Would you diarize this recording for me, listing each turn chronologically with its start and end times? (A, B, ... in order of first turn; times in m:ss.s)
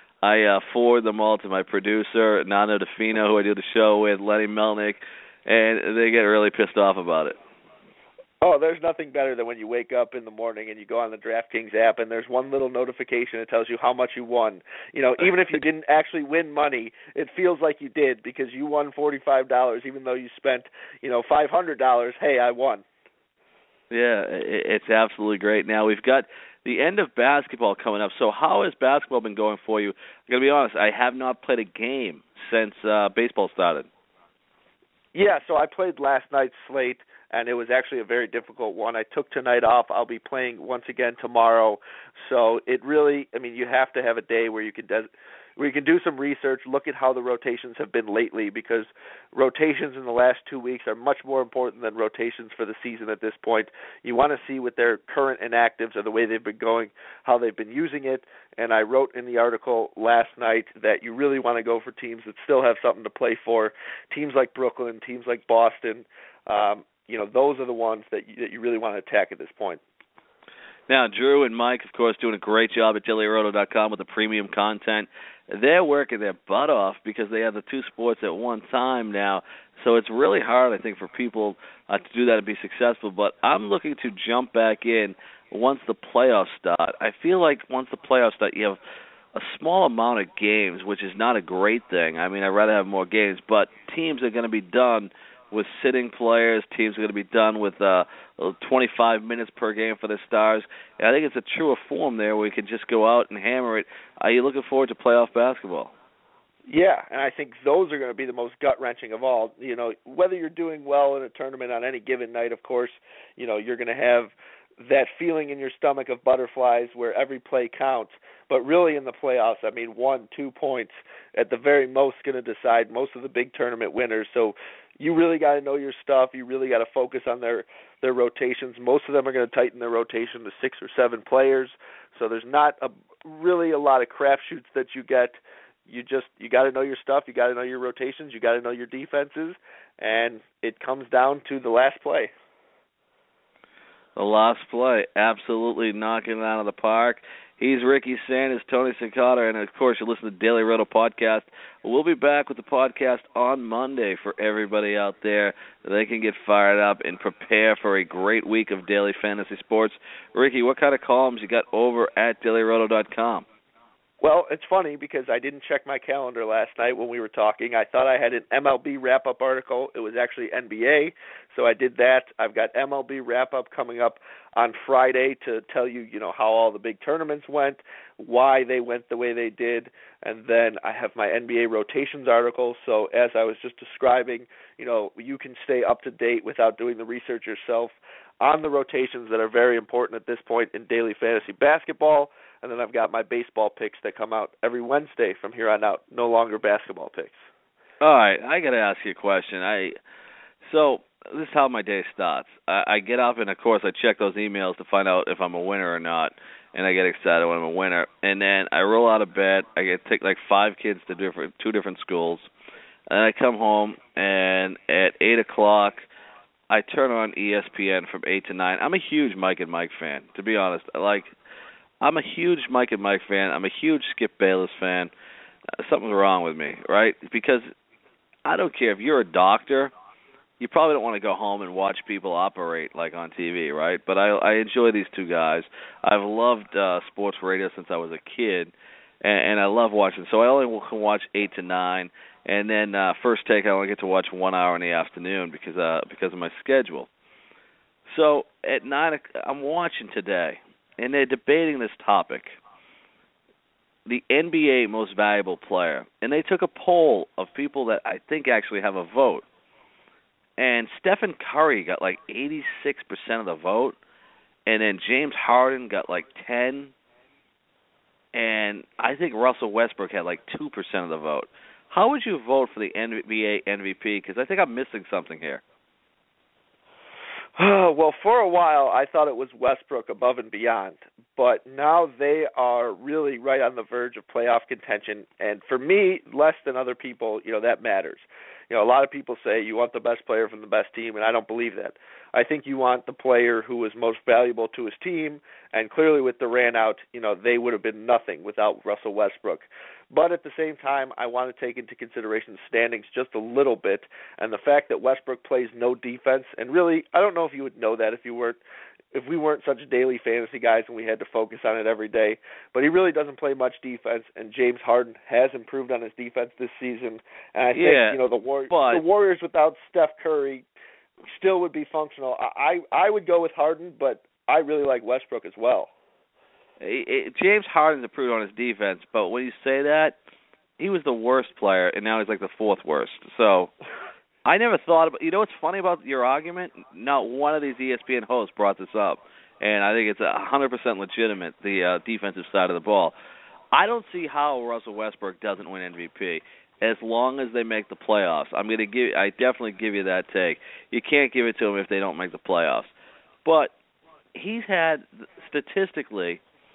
0:00.2-0:07.4 A
0:08.4-0:22.8 B
0:23.9-0:33.9 A
0:35.1-1:09.8 B
1:10.9-1:28.8 A
1:29.3-1:45.9 A
1:46.7-2:22.3 B
2:24.2-2:43.4 A
2:44.2-3:17.4 B
3:18.0-3:19.9 A
3:20.6-3:32.5 A
3:33.1-3:36.0 A
3:36.7-3:41.3 A
3:42.0-3:45.1 A
3:45.8-3:47.7 A
3:48.4-3:49.9 A
3:50.6-4:07.1 A
4:08.0-4:12.6 A
4:14.0-4:19.4 A
4:20.6-4:24.0 A
4:24.6-4:26.9 A
4:28.3-4:35.6 A
4:37.6-5:08.6 B
5:09.1-5:20.6 B
5:17.7-5:19.0 A
5:21.3-5:25.9 B
5:26.8-5:30.2 A
5:30.8-5:33.7 A
5:34.4-5:43.1 A
5:43.7-5:52.9 A
5:53.4-5:53.7 A
5:54.3-5:56.4 A